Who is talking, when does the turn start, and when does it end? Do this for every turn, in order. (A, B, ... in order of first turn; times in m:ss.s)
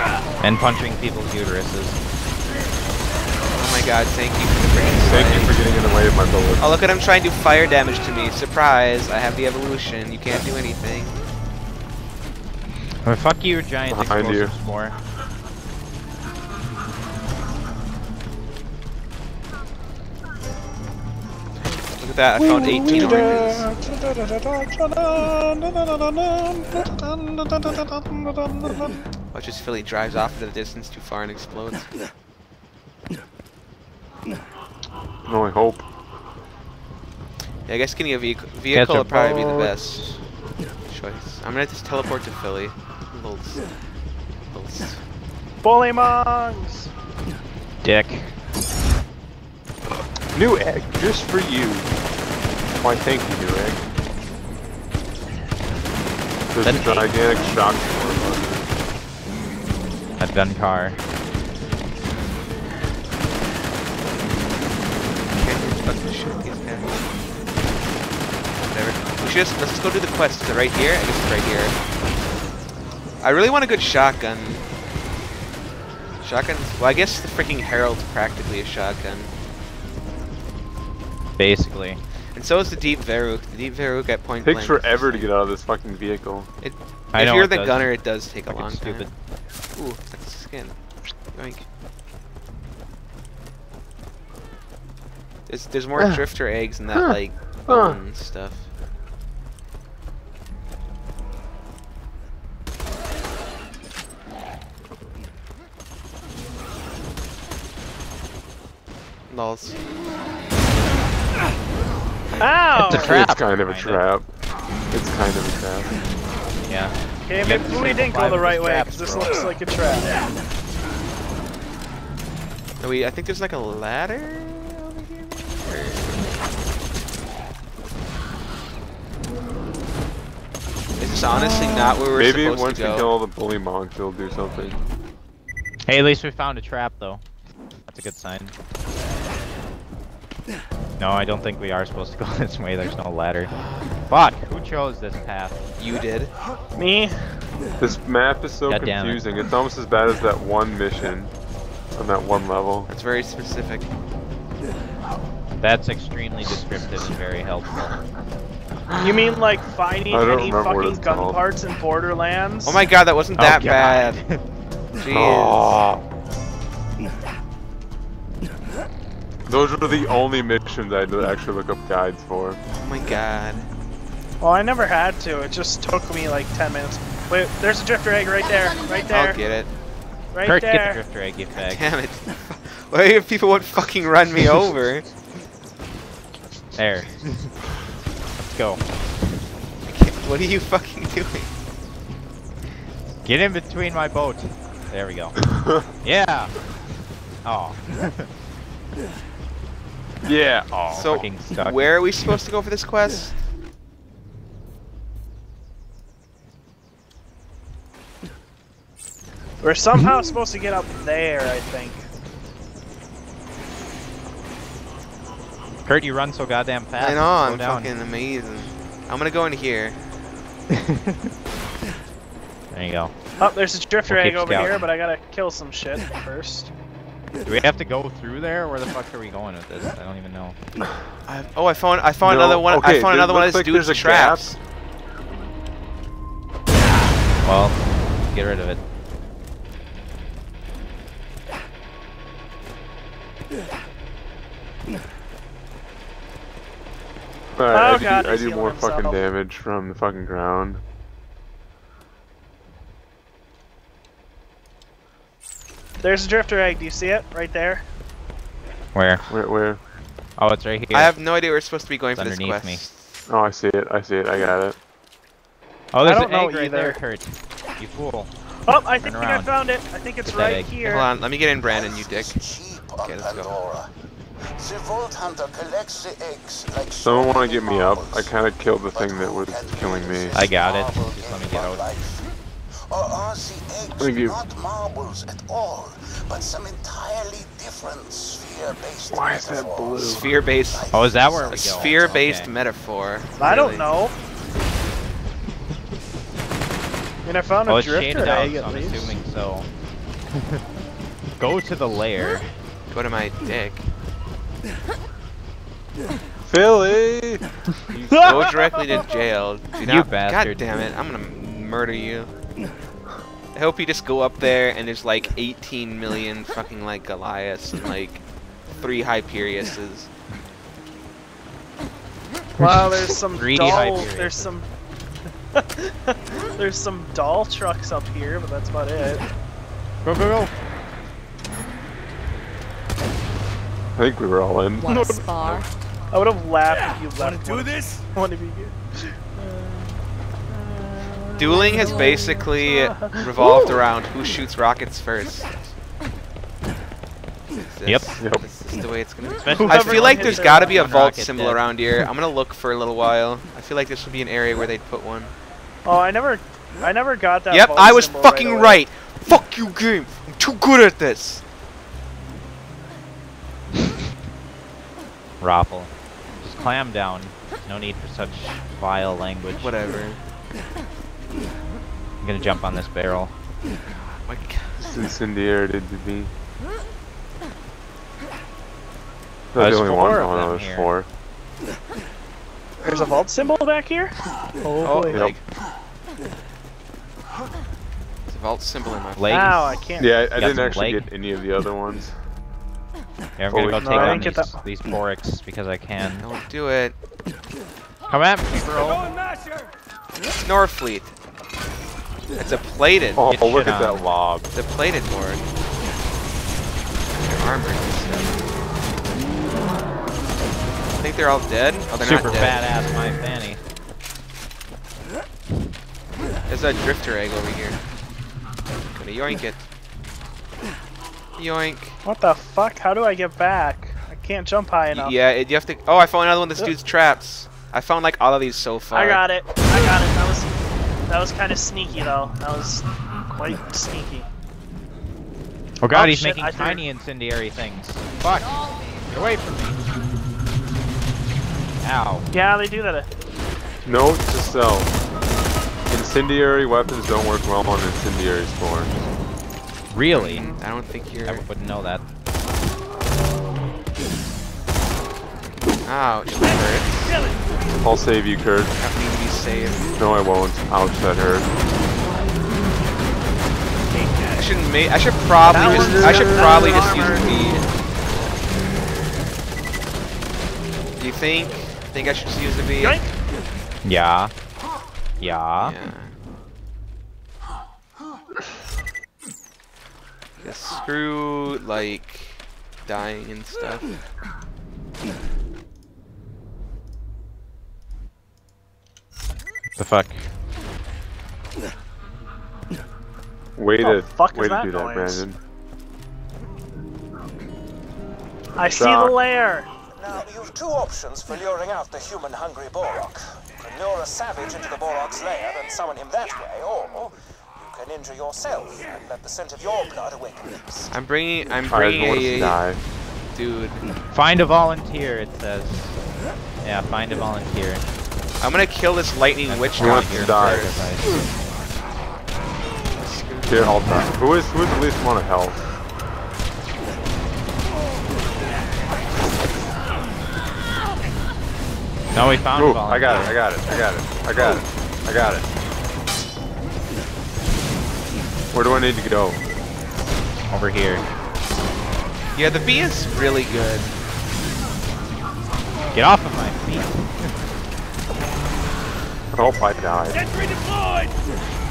0:00.4-0:02.0 A
0:03.5-0:05.6 B
0:05.0-0:06.8 C
0:06.6-0:11.1 B
0:13.0-0:15.0 A
0:13.9-0:14.5 C
0:21.6-0:23.7 B
0:22.4-0:29.0 C
0:22.8-0:23.6 D
0:29.3-0:31.9 B
0:35.2-0:35.8 C
0:37.7-0:40.0 B
0:38.7-0:40.2 A
0:40.9-0:43.6 B
0:44.5-0:45.0 B
0:45.6-0:46.9 D
0:47.8-0:48.3 A
0:50.3-0:51.9 C
0:52.8-0:53.8 C
0:56.5-0:58.6 C
0:56.6-0:57.1 A
1:00.2-1:01.0 A
1:05.3-1:07.0 B
1:08.7-1:11.7 B
1:13.2-1:14.6 B
1:16.2-1:19.3 B
1:21.4-1:22.0 A
1:22.3-1:25.3 B
1:24.4-1:26.5 C
1:26.6-1:29.1 B
1:27.1-1:29.1 A
1:29.7-1:30.8 B
1:31.3-1:31.6 B
1:35.5-1:38.7 B
1:36.9-1:38.0 C
1:49.3-1:49.8 B
1:52.4-1:53.2 D
1:52.8-1:54.0 A
1:52.8-1:54.3 C
1:54.9-1:55.9 C
1:56.7-1:59.4 A
1:57.3-2:00.2 D
2:02.8-2:06.2 B
2:11.0-2:13.1 B
2:12.1-2:14.8 C
2:15.9-2:17.2 A
2:17.9-2:18.5 A
2:21.0-2:23.5 A
2:24.1-2:25.6 A
2:25.8-2:26.3 B
2:26.8-2:27.2 D
2:27.8-2:31.3 C
2:28.7-2:29.2 A
2:32.0-2:32.9 C
2:32.9-2:33.9 B
2:35.6-2:37.8 A
2:38.9-2:39.1 C
2:39.0-2:42.8 D
2:40.1-2:41.4 C
2:42.6-2:44.2 B
2:43.4-2:44.4 A
2:45.0-2:45.7 B
2:45.1-2:46.0 C
2:49.5-2:52.6 C
2:52.8-2:53.7 B
2:54.4-2:59.4 D
2:58.3-2:59.4 E
2:59.1-2:59.7 B
3:00.3-3:01.0 D
3:00.4-3:01.9 A
3:01.5-3:05.1 B
3:06.7-3:07.5 A
3:08.5-3:08.8 A
3:09.9-3:11.5 B
3:13.2-3:15.4 A
3:15.4-3:15.9 C
3:16.0-3:16.5 A
3:17.4-3:18.3 A
3:20.2-3:21.3 C
3:20.9-3:21.8 A
3:20.9-3:23.3 B
3:29.6-3:32.0 D
3:35.8-3:37.9 A
3:37.0-3:40.0 B
3:40.7-3:41.3 A
3:42.7-3:43.1 A
3:43.4-3:46.7 D
3:44.0-3:44.8 A
3:47.4-3:50.6 A
3:51.3-3:54.6 B
3:52.2-3:54.5 C
3:57.4-3:57.8 A
3:58.3-3:58.8 A
4:07.6-4:10.8 C
4:07.7-4:09.2 D
4:16.0-4:17.8 D
4:18.9-4:19.3 A
4:19.3-4:19.8 C
4:20.4-4:21.1 A
4:20.9-4:23.0 B
4:22.2-4:22.8 A
4:23.3-4:24.8 C
4:25.9-4:28.3 A
4:26.0-4:27.0 D
4:28.6-4:31.1 D
4:29.0-4:29.5 A
4:30.2-4:30.7 A
4:30.8-4:33.6 B
4:31.6-4:33.9 F
4:34.5-4:38.3 F
4:37.0-4:40.4 C
4:38.9-4:42.3 F
4:40.3-4:41.9 A
4:42.9-4:52.4 F
4:44.0-4:44.4 C
4:49.1-4:50.3 C
4:50.0-4:50.9 B
4:50.9-4:52.5 A
4:51.5-4:53.9 B
4:53.4-4:54.2 D
4:57.2-4:59.2 D
4:57.7-4:59.7 A
5:00.3-5:00.6 A
5:01.4-5:02.5 A
5:02.9-5:03.9 B
5:06.5-5:08.6 C
5:08.1-5:09.0 D
5:08.2-5:12.3 B
5:09.8-5:10.6 A
5:13.5-5:18.2 B
5:18.8-5:20.1 B
5:22.6-5:24.5 A
5:22.6-5:24.7 D
5:25.5-5:29.2 D
5:30.0-5:30.5 A
5:34.0-5:34.9 C
5:34.8-5:35.7 E
5:34.9-5:35.2 D
5:36.1-5:43.8 D
5:36.7-5:38.1 G
5:41.4-5:45.7 B
5:41.5-5:42.5 E
5:47.5-5:55.3 B
5:49.4-5:51.7 A
5:49.5-5:50.8 D
5:55.8-5:58.8 D
5:57.5-6:01.4 B
6:05.4-6:09.7 A
6:09.6-6:10.2 B
6:12.2-6:13.3 A
6:14.1-6:14.9 B
6:14.8-6:16.3 C
6:19.5-6:21.1 C
6:19.6-6:20.9 A
6:22.8-6:25.2 D
6:24.8-6:25.4 B
6:25.1-6:25.4 C
6:28.3-6:29.6 B
6:29.2-6:29.6 A
6:29.3-6:30.2 D
6:30.0-6:32.2 C
6:30.3-6:31.1 A
6:33.4-6:36.3 A
6:33.5-6:34.3 C
6:33.8-6:34.6 D
6:36.2-6:36.9 B
6:38.1-6:39.0 A
6:38.5-6:39.7 G
6:40.4-6:41.1 B
6:42.3-6:43.2 B
6:43.2-6:44.5 C
6:43.2-6:44.0 A
6:44.5-6:45.5 B
6:47.1-6:48.4 B
6:51.0-6:52.7 B
6:52.0-6:53.6 A
6:56.5-6:57.8 B
6:58.9-6:59.6 B
7:01.4-7:02.0 B
7:02.0-7:05.1 D
7:04.9-7:09.2 B
7:08.9-7:10.5 D
7:11.1-7:14.3 D
7:15.8-7:18.5 A
7:15.9-7:16.8 D
7:19.1-7:19.9 A
7:21.8-7:22.3 A
7:22.3-7:23.1 D
7:23.8-7:24.9 C
7:25.9-7:28.9 C
7:29.9-7:30.5 A
7:30.1-7:31.5 B
7:31.2-7:32.0 A
7:35.8-7:37.2 B
7:36.3-7:37.4 G
7:37.8-7:38.8 C
7:38.8-7:39.9 B
7:40.0-7:41.5 C
7:43.9-7:44.5 G
7:44.4-7:47.6 B
7:45.5-7:47.3 D
7:45.5-7:47.3 C
7:51.0-7:53.0 B
7:52.8-7:53.1 D
7:53.8-7:54.3 A
7:55.2-7:55.8 A
7:55.6-7:56.1 B
8:00.4-8:03.9 B
8:09.8-8:10.3 A
8:13.6-8:15.4 C
8:13.8-8:15.2 D
8:18.6-8:19.7 D
8:18.7-8:19.2 C
8:19.9-8:31.0 F
8:30.9-8:32.6 B
8:31.7-8:32.8 C
8:33.3-8:33.8 B
8:34.1-8:36.0 A
8:36.6-8:37.8 A
8:38.4-8:41.0 B
8:39.5-8:41.1 A
8:39.8-8:40.8 C
8:42.9-8:43.9 B
8:43.4-8:45.6 C
8:52.1-8:53.4 A
8:52.5-8:55.4 C
8:58.5-8:59.4 C
9:00.5-9:01.0 A
9:02.3-9:03.9 B
9:05.9-9:07.3 A
9:09.3-9:10.2 C
9:10.1-9:11.2 G